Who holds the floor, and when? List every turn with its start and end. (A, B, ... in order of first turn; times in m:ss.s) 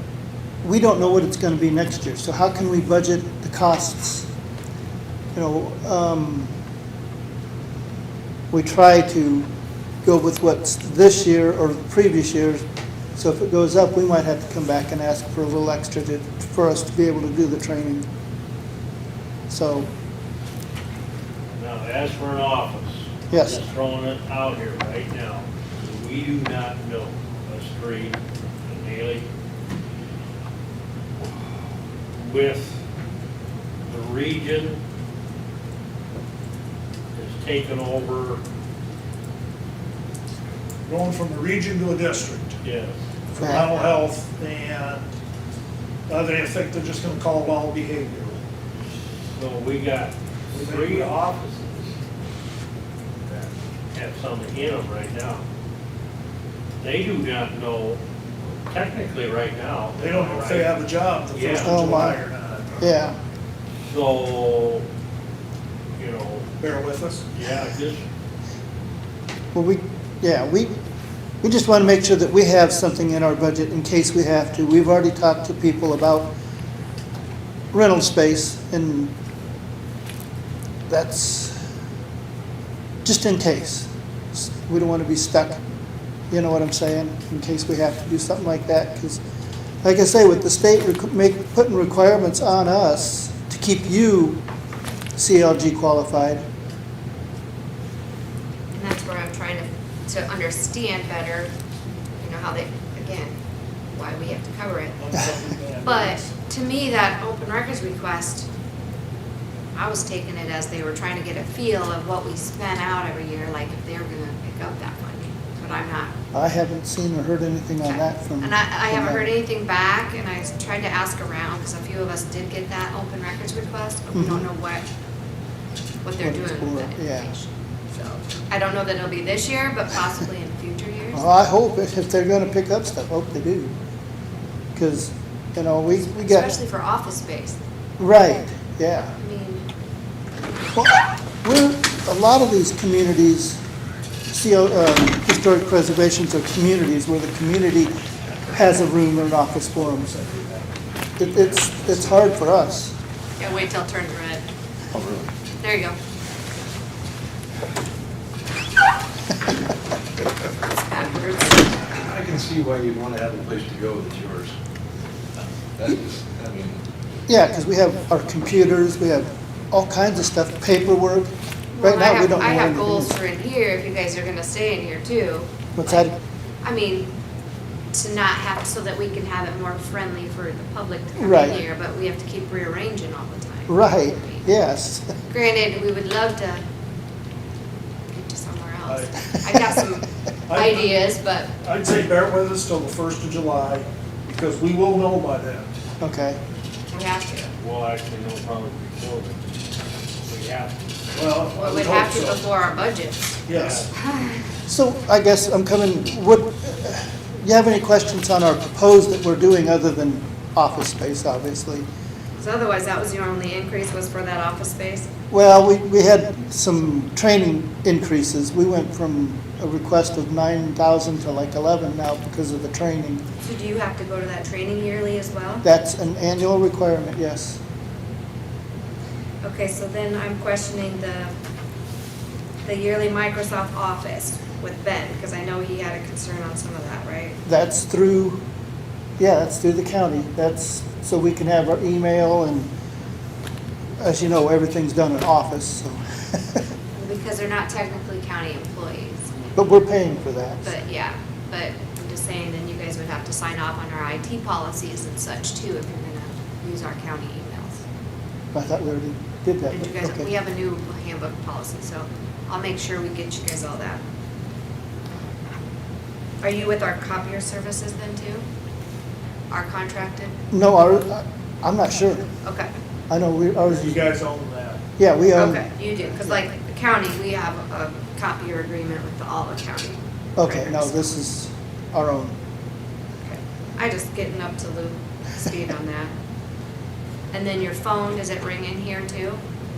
0:00.6-0:04.3 A
0:05.4-0:06.5 A
0:08.5-0:09.5 A
0:10.0-0:12.6 A
0:13.2-0:18.1 A
0:19.5-0:19.9 A
0:21.5-0:29.3 B
0:23.3-0:23.6 A
0:32.1-0:32.8 B
0:33.9-0:34.8 B
0:37.1-0:38.4 B
0:40.9-0:42.6 C
0:42.6-0:43.0 B
0:43.3-0:45.1 C
0:43.4-0:43.7 A
0:46.1-0:48.4 C
0:49.2-0:52.0 B
0:50.6-0:51.1 C
0:53.9-0:55.4 B
0:56.8-1:00.8 B
1:00.0-1:02.9 C
1:01.3-1:02.1 B
1:01.6-1:02.2 A
1:02.8-1:03.2 A
1:03.8-1:04.8 B
1:06.0-1:06.5 B
1:06.6-1:07.2 C
1:07.3-1:08.0 B
1:09.5-1:10.8 A
1:11.4-1:16.3 A
1:17.7-1:19.1 A
1:20.9-1:21.6 A
1:23.0-1:25.6 A
1:26.3-1:29.2 A
1:29.8-1:34.4 A
1:35.2-1:36.4 A
1:38.7-1:41.5 D
1:42.2-1:43.4 D
1:43.9-1:45.0 D
1:45.0-1:46.3 C
1:45.8-1:48.5 D
1:49.8-1:56.1 D
1:56.3-1:59.3 A
1:57.9-2:04.8 D
2:04.2-2:04.5 A
2:06.0-2:11.3 D
2:06.2-2:07.3 A
2:11.1-2:13.7 A
2:14.8-2:16.5 A
2:16.1-2:17.6 D
2:18.0-2:19.1 A
2:19.1-2:19.7 D
2:20.7-2:23.6 A
2:24.3-2:27.9 A
2:28.5-2:30.1 A
2:30.0-2:30.7 C
2:31.2-2:33.0 A
2:31.3-2:32.0 C
2:33.4-2:34.4 D
2:35.0-2:35.3 E
2:35.6-2:36.0 D
2:40.7-2:41.7 D
2:42.0-2:44.5 E
2:45.8-2:46.8 E
2:47.3-2:53.2 A
2:51.8-2:56.1 D
2:55.8-2:56.1 A
2:56.6-2:57.1 D
2:57.9-3:04.4 D
3:01.2-3:01.6 A
3:03.7-3:05.1 A
3:05.3-3:06.6 D
3:08.1-3:11.5 D
3:08.9-3:09.1 C
3:10.5-3:11.0 C
3:11.6-3:15.7 C
3:16.0-3:16.4 A
3:16.9-3:17.5 D
3:17.6-3:19.4 B
3:20.2-3:20.8 B
3:21.1-3:22.4 C
3:21.5-3:23.4 D
3:23.5-3:23.9 C
3:23.5-3:23.9 B
3:24.6-3:31.9 A
3:32.4-3:35.1 D
3:35.3-3:43.2 A
3:43.4-3:45.6 D
3:45.6-3:47.6 A
3:49.4-3:51.3 D
3:52.6-3:57.4 D
3:57.4-3:58.4 A
3:59.2-4:02.7 A
4:04.0-4:06.6 A
4:07.0-4:09.4 D
4:09.6-4:10.7 A
4:10.6-4:17.8 D
4:18.5-4:20.3 A
4:19.7-4:24.0 D
4:26.4-4:28.4 D
4:29.5-4:30.4 D
4:30.5-4:32.3 A
4:32.4-4:32.7 D
4:33.1-4:34.1 A
4:33.7-4:34.8 C
4:35.0-4:35.7 A
4:35.4-4:41.2 D
4:40.4-4:42.4 A
4:43.2-4:46.1 D
4:47.3-4:49.4 D